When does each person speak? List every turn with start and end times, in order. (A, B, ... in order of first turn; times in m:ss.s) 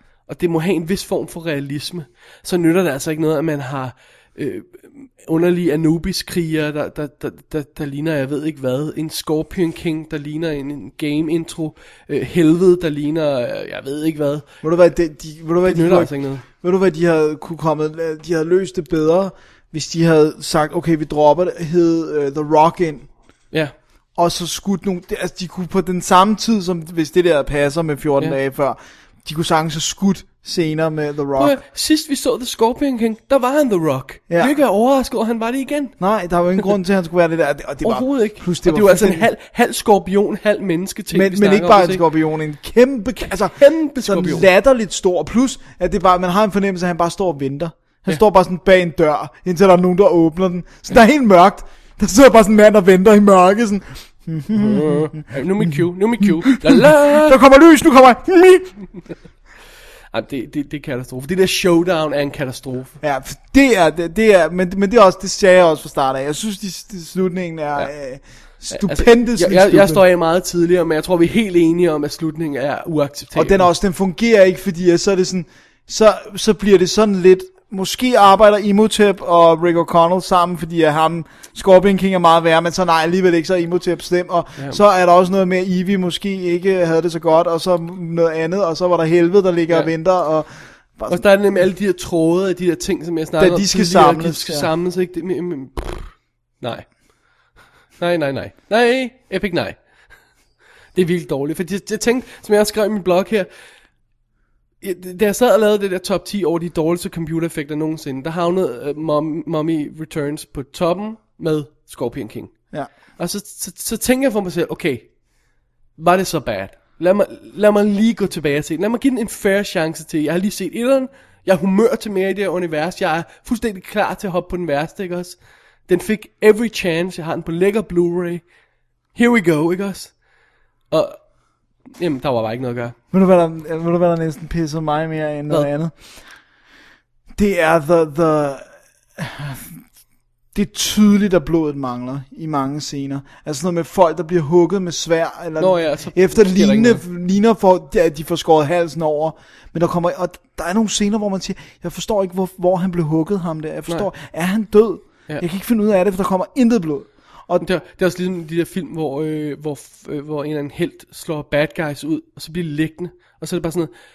0:00.3-0:14.5 A
0:14.6-0:23.1 B
0:15.6-0:16.4 A
0:24.2-0:31.6 B
0:31.4-0:36.0 A
0:34.3-0:34.6 B
0:36.0-0:39.3 B
0:37.8-0:42.0 A
0:41.1-0:58.8 B
0:43.5-0:44.5 A
0:54.5-0:57.4 A
1:00.1-1:03.0 A
1:03.0-1:10.0 B
1:08.7-1:13.7 A
1:13.3-1:31.3 B
1:31.1-1:36.9 A
1:33.4-1:34.7 B
1:38.0-1:39.8 A
1:40.9-1:43.5 A
1:44.8-1:55.2 A
1:56.0-2:08.5 A
2:09.1-2:10.2 A
2:10.9-2:11.2 A
2:11.9-2:13.0 A
2:13.1-2:16.0 B
2:17.4-2:19.8 B
2:20.5-2:37.7 B
2:25.6-2:27.0 A
2:37.6-2:43.9 A